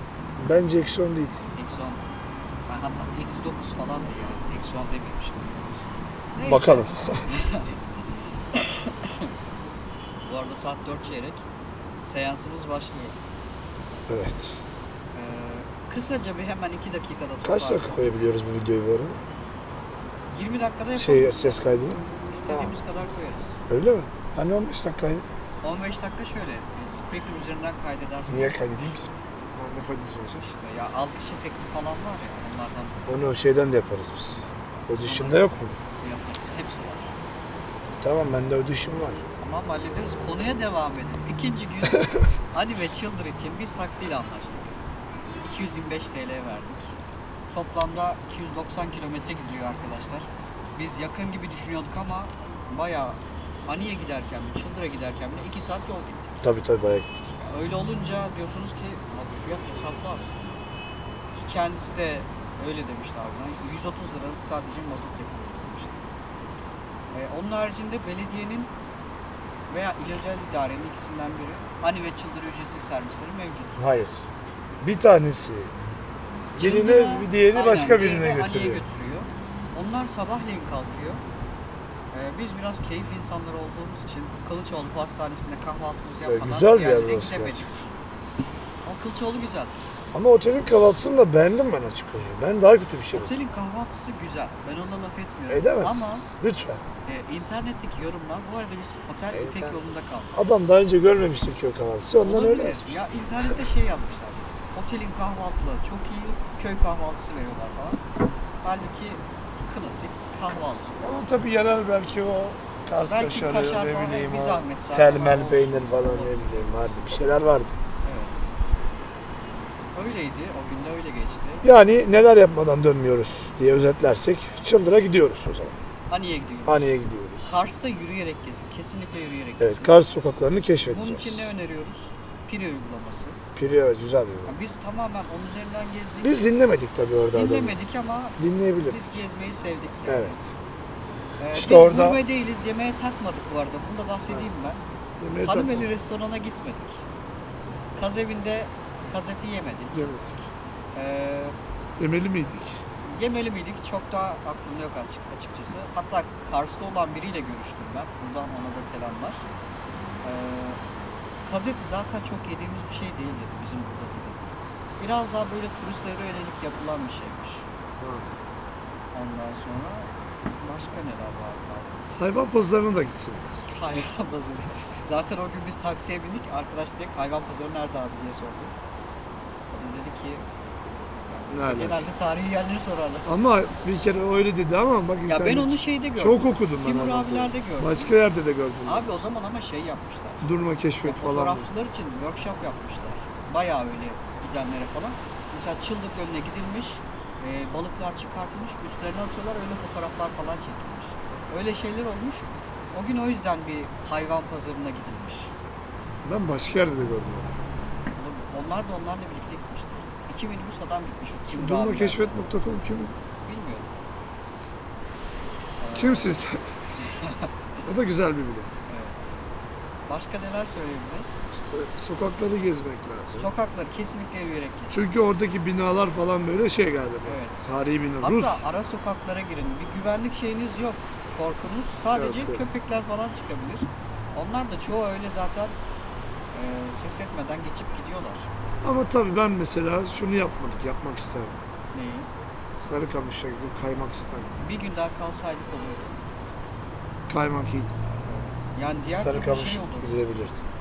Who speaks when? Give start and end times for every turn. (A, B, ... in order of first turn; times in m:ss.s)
0:00.4-0:01.4 A
0:01.6-0:02.0 B
0:02.7-0:05.5 B
0:06.4-0:07.8 B
0:06.5-0:07.4 A
0:08.5-0:09.3 B
0:10.2-0:11.4 B
0:12.0-0:13.2 B
0:14.1-0:14.6 A
0:15.1-0:18.1 B
0:17.4-0:19.2 A
0:20.3-0:21.7 B
0:21.0-0:22.8 A
0:22.3-0:23.6 B
0:23.7-0:25.2 A
0:25.6-0:29.0 B
0:28.3-0:30.4 A
0:30.4-0:33.3 B
0:33.1-0:35.8 A
0:35.0-0:37.1 B
0:37.9-0:39.2 A
0:39.4-0:44.7 B
0:45.4-0:46.9 B
0:47.5-0:56.4 B
0:56.4-0:57.3 A
0:57.4-1:00.6 B
1:01.3-1:06.0 B
1:07.1-1:08.7 B
1:09.7-1:13.8 B
1:13.8-1:14.2 A
1:14.8-1:15.7 A
1:16.6-1:18.8 A
1:16.6-1:21.2 B
1:22.1-1:27.9 B
1:26.3-1:27.7 A
1:28.8-1:29.7 B
1:30.1-1:33.3 A
1:33.1-1:36.3 B
1:35.5-1:36.8 A
1:37.1-1:40.3 B
1:39.3-1:39.7 A
1:40.3-1:43.5 A
1:42.2-1:48.0 B
1:48.6-1:51.0 B
1:50.5-1:57.8 A
1:53.1-1:56.9 B
1:58.0-1:58.5 B
1:59.9-2:01.7 B
2:01.6-2:05.8 A
2:06.1-2:10.0 B
2:06.6-2:07.5 A
2:09.6-2:11.5 A
2:10.9-2:13.4 B
2:13.6-2:14.6 A
2:14.5-2:16.5 B
2:16.2-2:17.8 A
2:17.3-2:20.4 B
2:18.4-2:19.2 A
2:20.1-2:20.5 A
2:21.4-2:24.8 B
2:21.5-2:22.2 A
2:25.2-2:25.9 A
2:25.4-2:27.0 B
2:28.0-2:30.1 B
2:29.9-2:30.5 A
2:31.0-2:31.6 B
2:32.0-2:32.8 A
2:33.0-2:39.5 B
2:40.2-2:40.8 B
2:41.5-2:47.7 B
2:48.0-2:48.3 A
2:49.1-2:51.9 B
2:52.2-2:53.6 A
2:53.7-2:58.7 B
2:59.7-3:00.4 B
3:01.3-3:03.3 B
3:01.5-3:02.0 A
3:03.2-3:09.1 A
3:05.3-3:08.1 B
3:08.9-3:10.5 B
3:10.4-3:11.7 A
3:11.0-3:25.5 B
3:26.2-3:27.5 A
3:28.2-3:32.4 B
3:31.5-3:33.2 A
3:33.4-3:33.9 B
3:35.8-3:36.4 B
3:36.0-3:36.6 A
3:37.0-3:37.5 B
3:37.8-3:38.7 A
3:38.9-3:39.4 B
3:40.1-3:41.4 B
3:41.5-3:43.5 A
3:43.3-3:45.1 B
3:44.9-3:48.7 A
3:47.2-3:55.7 B
3:52.2-3:52.6 A
3:56.5-3:58.5 B
3:58.8-4:01.6 A
4:01.9-4:02.3 B
4:02.8-4:04.6 A
4:04.6-4:06.2 B
4:07.3-4:08.0 A
4:08.3-4:10.1 B
4:09.2-4:10.6 A